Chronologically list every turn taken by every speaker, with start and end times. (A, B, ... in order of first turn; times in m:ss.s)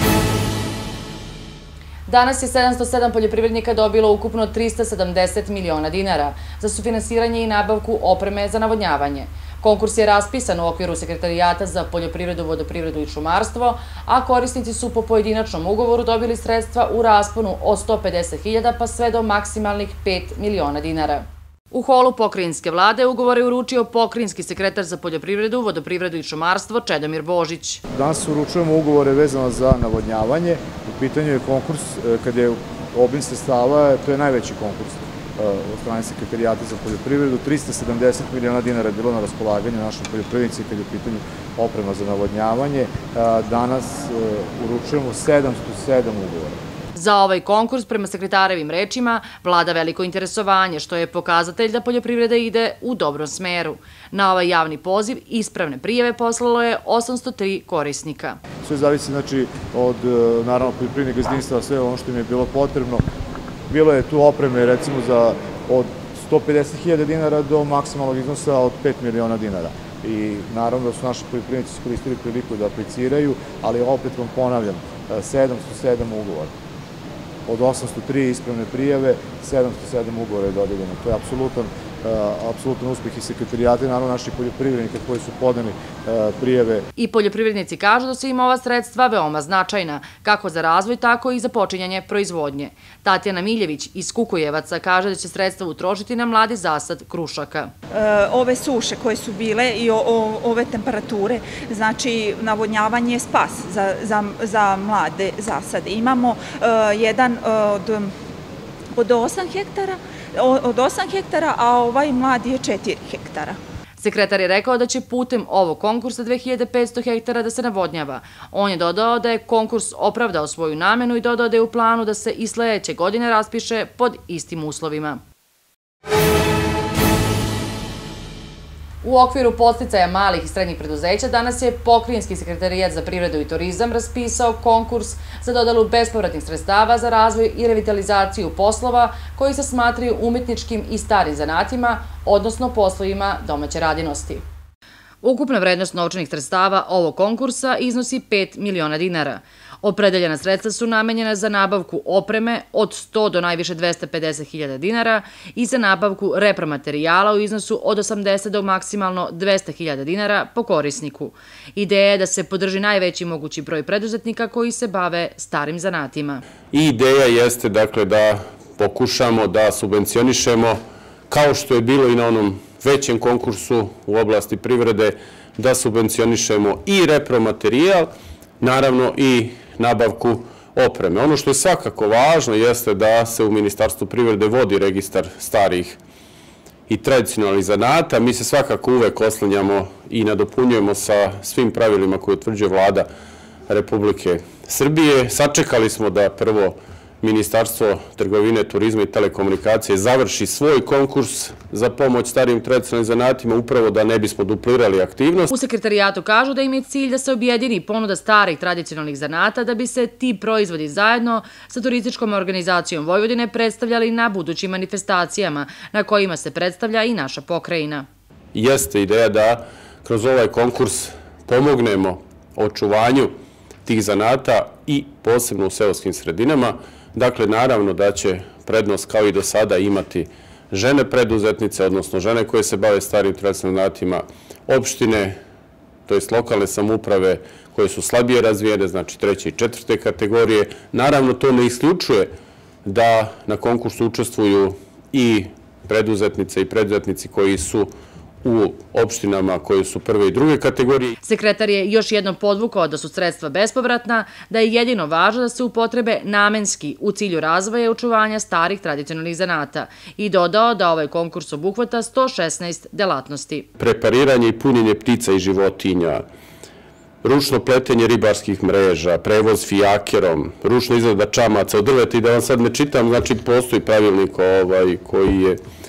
0:02.1-0:27.8 A
0:27.9-0:46.6 B
0:46.9-0:58.4 A
0:58.6-1:03.0 B
1:03.7-1:16.5 B
1:17.4-1:26.8 B
1:27.0-1:37.7 A
1:37.9-1:48.1 C
1:49.0-1:53.6 C
1:54.0-2:05.2 A
2:09.0-2:24.4 A
2:25.2-2:46.4 A
2:46.7-3:06.0 D
3:06.9-3:13.1 D
3:13.7-3:25.5 D
3:25.5-3:38.1 A
3:38.5-3:55.4 D
3:56.1-4:02.3 D
4:02.8-4:07.9 D
4:08.4-4:11.1 D
4:11.2-4:23.7 A
4:23.8-4:26.2 D
4:27.2-4:35.6 D